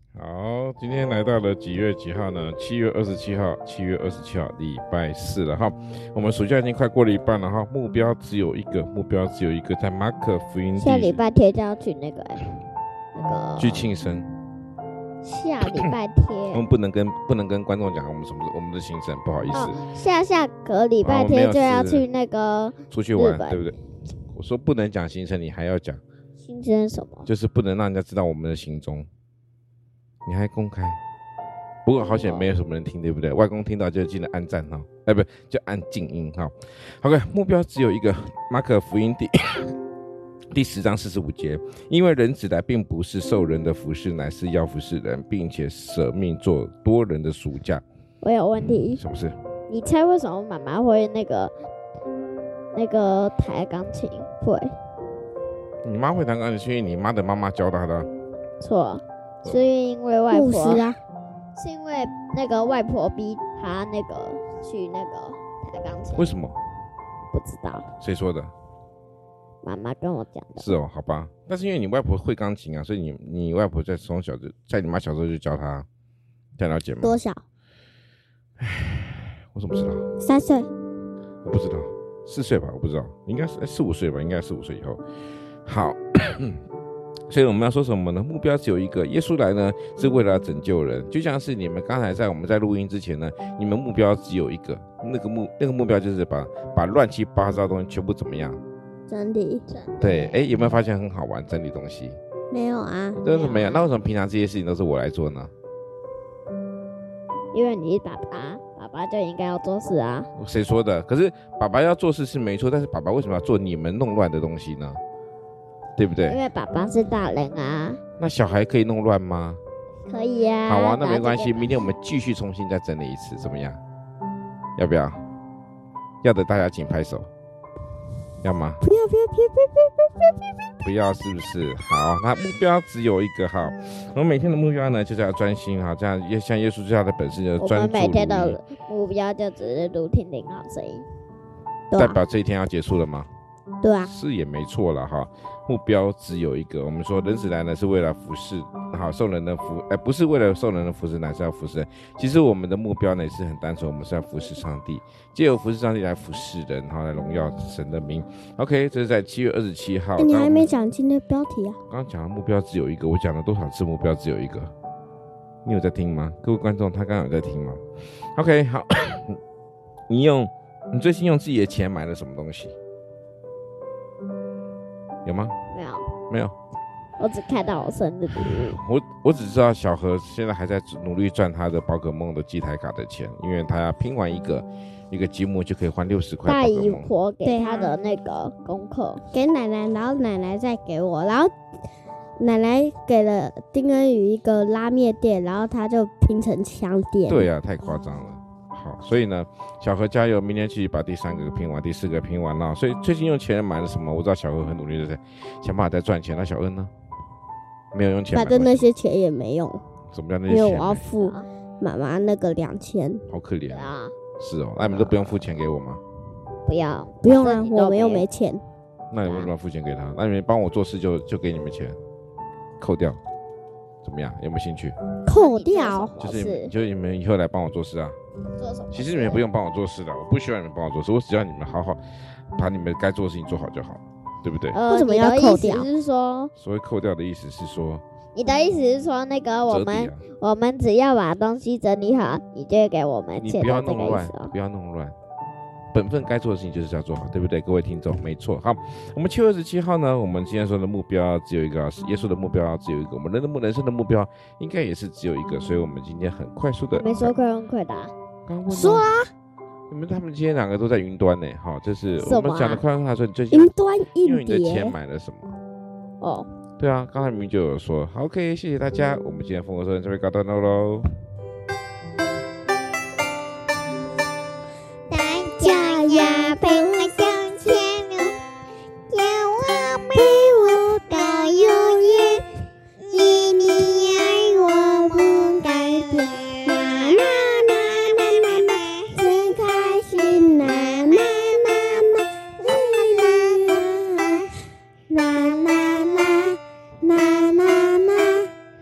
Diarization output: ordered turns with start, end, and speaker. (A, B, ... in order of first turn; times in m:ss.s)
0:00.1-0:11.2 A
0:10.8-0:12.5 B
0:13.1-0:13.9 B
0:13.6-0:14.3 A
0:15.2-0:16.6 B
0:16.5-0:19.8 A
0:19.5-0:23.6 B
0:21.0-0:22.1 A
0:22.9-0:23.8 A
0:24.3-0:26.0 A
0:26.4-0:27.3 B
0:27.3-0:29.1 A
0:30.2-0:31.0 A
0:31.8-0:39.8 A
0:32.0-0:32.5 B
0:40.5-0:47.8 A
0:48.2-0:49.0 B
0:49.0-0:49.4 A
0:49.7-0:51.5 B
0:52.7-0:54.8 B
0:55.8-0:58.1 A
0:58.6-1:00.9 B
1:00.3-1:01.0 C
1:01.6-1:06.3 B
1:06.2-1:06.6 A
1:07.3-1:07.9 B
1:08.0-1:08.5 A
1:09.6-1:10.7 B
1:10.6-1:15.9 A
1:16.6-1:17.2 A
1:17.0-1:17.4 C
1:18.6-1:20.0 A
1:20.2-1:20.7 C
1:21.4-1:25.0 A
1:25.6-1:26.6 A
1:27.3-1:38.6 A
1:39.1-1:39.6 C
1:39.7-1:40.4 B
1:40.0-1:42.2 A
1:42.5-1:43.2 C
1:43.2-1:45.5 A
1:43.2-1:43.9 B
1:47.5-1:50.3 B
1:50.4-1:55.0 A
1:56.0-1:56.4 A
1:56.3-1:58.0 B
1:58.2-1:59.6 A
2:00.1-2:01.8 B
2:00.7-2:03.8 A
2:04.8-2:05.2 A
2:06.2-2:07.3 A
2:08.4-2:08.8 A
2:08.8-2:10.5 C
2:10.8-2:18.6 A
2:17.6-2:21.1 B
2:21.9-2:22.2 C
2:22.0-2:23.3 A
2:23.8-2:24.1 C
2:24.0-2:40.7 A
2:40.2-2:41.8 C
2:41.9-2:44.7 A
2:45.6-2:49.4 A
2:50.1-2:52.8 A
2:55.2-2:55.6 A
2:55.7-2:56.1 B
2:56.3-2:56.6 A
2:57.2-2:58.8 B
2:58.4-3:07.1 A
3:06.5-3:09.2 B
3:07.4-3:08.0 C
3:09.3-3:11.5 C
3:12.4-3:17.5 C
3:17.3-3:26.9 A
3:27.9-3:28.9 A
3:28.3-3:29.8 C
3:30.1-3:31.1 A
3:30.5-3:33.3 C
3:31.1-3:31.5 B
3:33.3-3:33.9 A
3:33.7-3:34.2 B
3:34.4-3:36.0 A
3:34.8-3:35.3 B
3:36.7-3:38.3 B
3:37.2-3:38.6 C
3:39.1-3:42.0 A
3:39.2-3:39.5 B
3:42.8-3:43.2 A
3:44.0-3:45.0 A
3:45.2-3:46.1 C
3:45.3-3:46.7 B
3:46.2-3:48.2 A
3:48.6-3:49.4 B
3:48.9-3:52.0 A
3:52.6-3:54.8 A
3:54.7-3:56.5 B
3:54.9-3:55.9 C
3:56.6-3:58.0 A
3:58.4-4:04.5 B
3:59.7-4:00.2 A
4:03.4-4:05.2 A
4:05.9-4:17.3 A
4:17.0-4:18.1 B
4:18.5-4:19.1 A
4:18.7-4:19.3 C
4:19.9-4:25.6 A
4:22.2-4:22.8 B
4:23.5-4:25.0 C
4:26.2-4:26.5 B
4:26.8-4:31.2 A
4:35.1-4:37.1 B
4:35.4-4:37.9 C
4:39.9-4:42.3 C
4:43.1-4:44.1 B
4:43.2-4:43.5 C
4:44.4-4:47.5 C
4:47.5-4:49.2 B
4:49.1-4:54.4 C
4:55.1-4:58.5 C